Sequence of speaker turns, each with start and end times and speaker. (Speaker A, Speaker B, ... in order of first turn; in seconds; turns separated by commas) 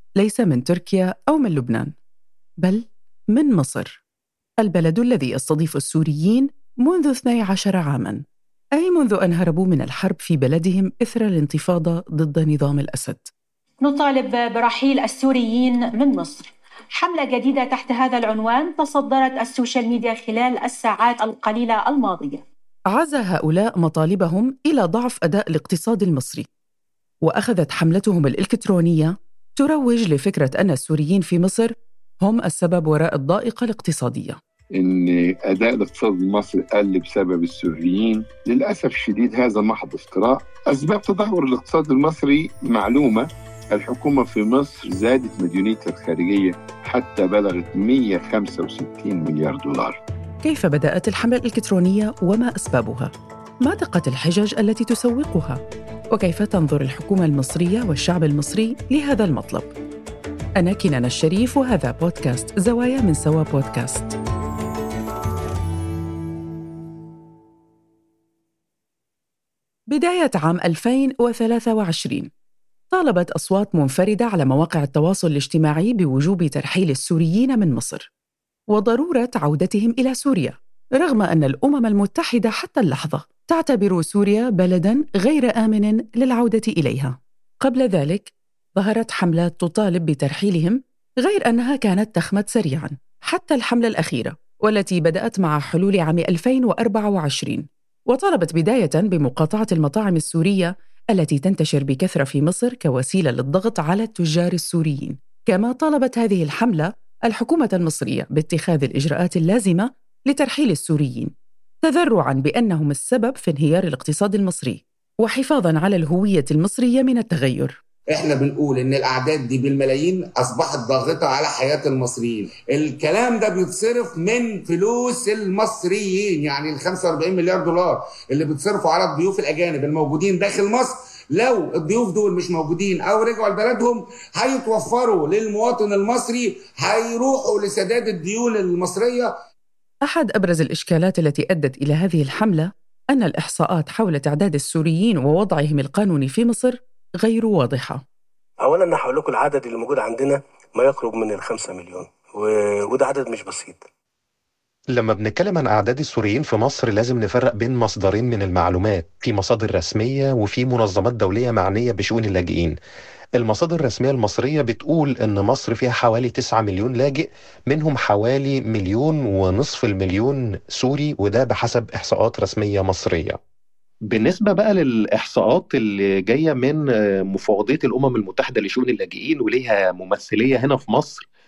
Speaker A: 0.2-1.9, Speaker A: 2.6-4.0, Speaker A: 4.6-8.2, Speaker A: 8.8-13.3, Speaker B: 13.8-16.5, Speaker B: 17.0-22.4, Speaker A: 22.9-26.4, Speaker A: 27.2-34.4, Speaker C: 34.8-50.0, Speaker A: 50.4-53.1, Speaker A: 53.6-55.6, Speaker A: 56.1-59.7, Speaker A: 60.6-64.2, Speaker A: 69.9-72.3, Speaker A: 72.9-78.1, Speaker A: 78.7-111.3, Speaker A: 111.8-117.8, Speaker D: 118.1-139.3, Speaker A: 140.0-148.0, Speaker E: 148.6-153.8, Speaker F: 154.9-162.8, Speaker F: 163.4-173.4, Speaker F: 174.1-181.3